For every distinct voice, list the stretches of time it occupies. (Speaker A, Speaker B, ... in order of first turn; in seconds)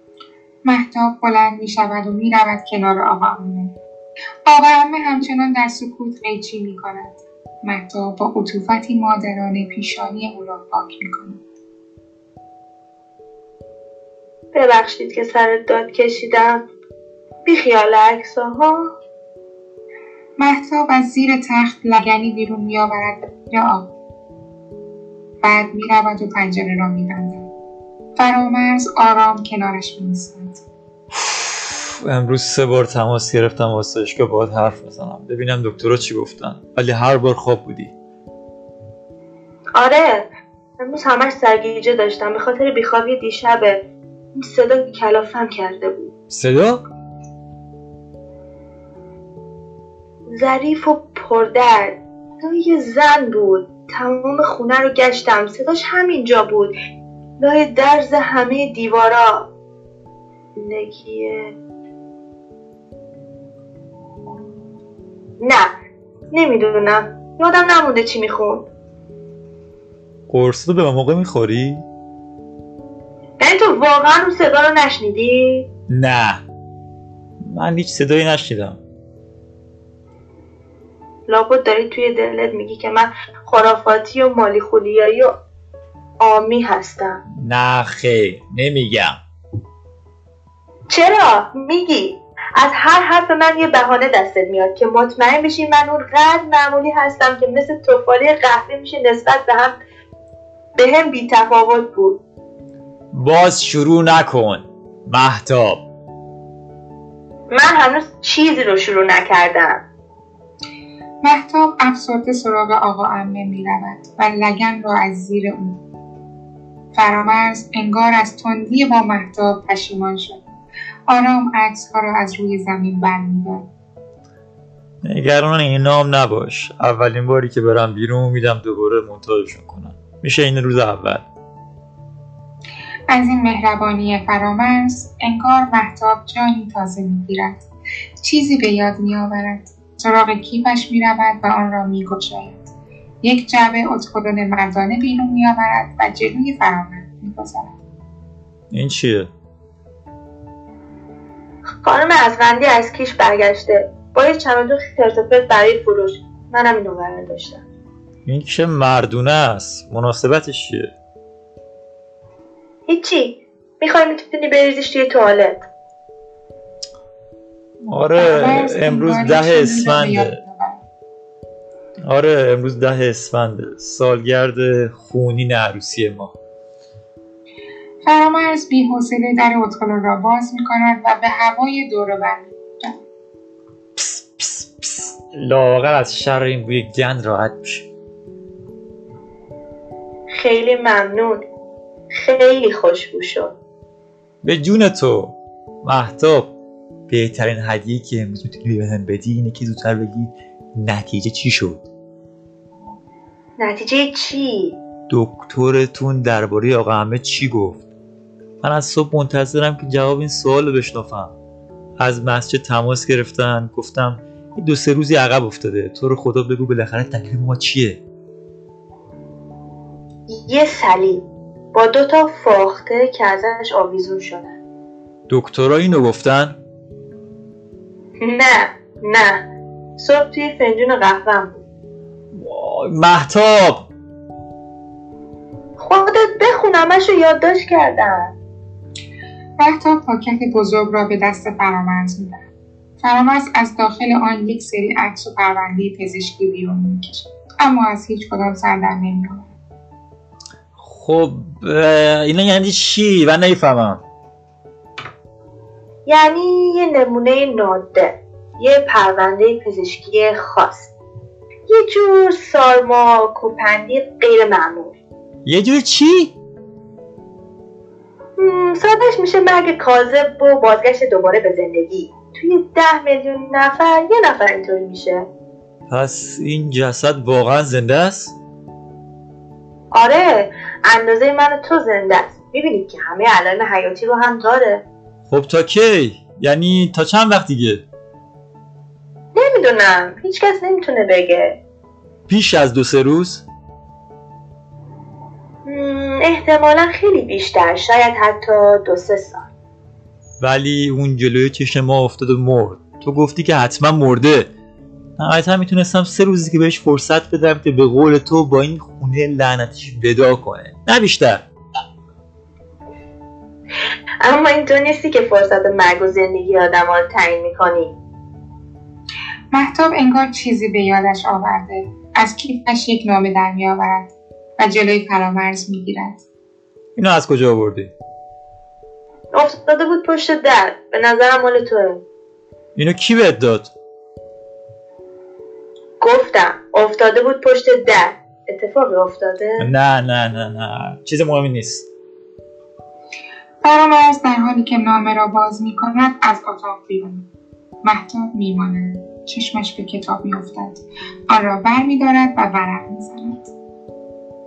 Speaker A: 0.7-3.8, 4.5-11.4, 20.4-23.9, 25.4-27.5, 28.2-30.6, 111.2-115.8, 117.0-120.5, 121.1-123.7, 133.1-137.6, 138.2-142.7, 143.2-147.7, 168.2-170.8, 178.1-183.0, 239.6-242.5, 243.0-249.5, 319.5-326.2, 343.6-347.3, 347.8-353.5
Speaker B: 14.5-16.6, 17.4-18.9, 39.8-40.3, 40.8-46.1, 50.3-56.8, 57.4-59.5, 60.6-61.5, 65.4-65.8, 66.3-68.7, 73.4-75.7, 81.3-85.4, 86.2-87.2, 90.9-99.8, 100.8-102.2, 107.5-109.8, 151.8-157.6, 162.9-165.7, 190.3-191.4, 192.1-193.6, 203.6-204.8, 220.3-224.6, 228.2-229.5, 230.0-231.6, 235.8-238.3, 256.1-260.9, 261.7-265.0, 268.4-275.3, 279.9-284.8, 289.4-291.6, 295.7-299.5, 314.2-318.0, 329.3-332.0, 336.0-339.7
Speaker C: 31.1-37.9, 46.3-46.8, 70.3-71.8, 75.9-76.4, 77.4-78.8, 87.4-89.2, 103.1-105.8, 125.0-131.3, 148.7-149.3, 158.3-160.9, 167.9-170.4, 172.1-176.4, 184.0-187.9, 194.4-196.5, 197.1-201.9, 205.1-207.8, 208.6-211.3, 212.0-218.0, 225.3-226.6, 232.3-233.9, 250.8-254.0, 265.5-266.4, 275.9-278.4, 285.3-287.9, 292.3-293.4, 300.4-304.5, 305.2-311.4, 327.0-327.9, 332.8-333.7, 339.6-341.9